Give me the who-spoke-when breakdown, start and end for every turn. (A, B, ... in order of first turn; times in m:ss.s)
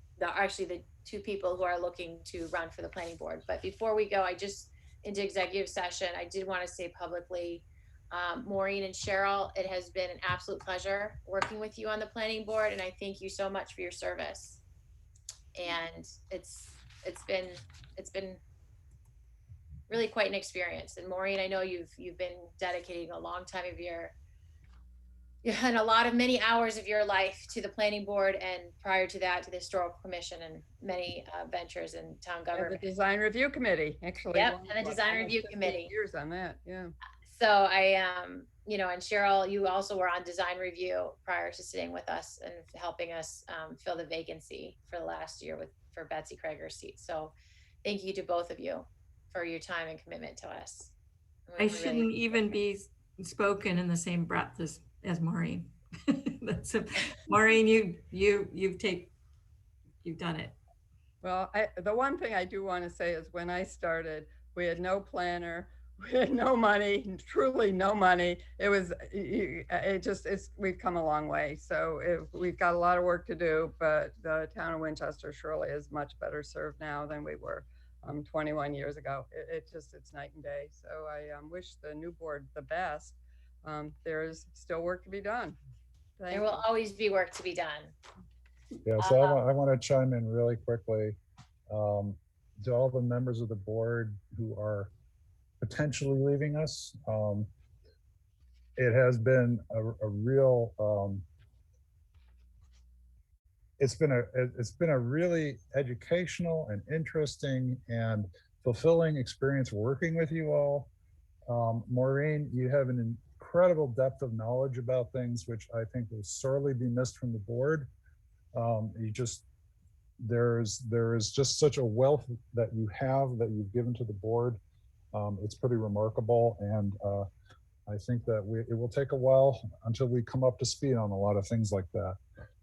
0:00.2-0:14.6 A
0:15.5-0:18.4 A
0:19.9-0:24.2 A
0:25.4-0:32.8 A
0:32.5-0:36.9 B
0:34.3-0:35.9 A
0:37.2-0:50.9 A
0:51.5-0:52.1 A
0:51.6-0:59.1 C
1:00.0-1:00.6 C
1:01.2-1:25.6 B
1:26.2-1:26.6 B
1:26.3-1:27.9 A
1:28.8-1:31.2 D
1:29.0-1:29.4 A
1:31.7-1:34.9 D
1:35.6-1:37.5 D
1:38.8-1:41.2 D
1:43.8-1:50.9 D
1:51.5-1:57.9 D
1:58.5-1:59.4 D
2:00.2-2:04.6 D
2:05.1-2:07.3 D
2:07.9-2:12.2 D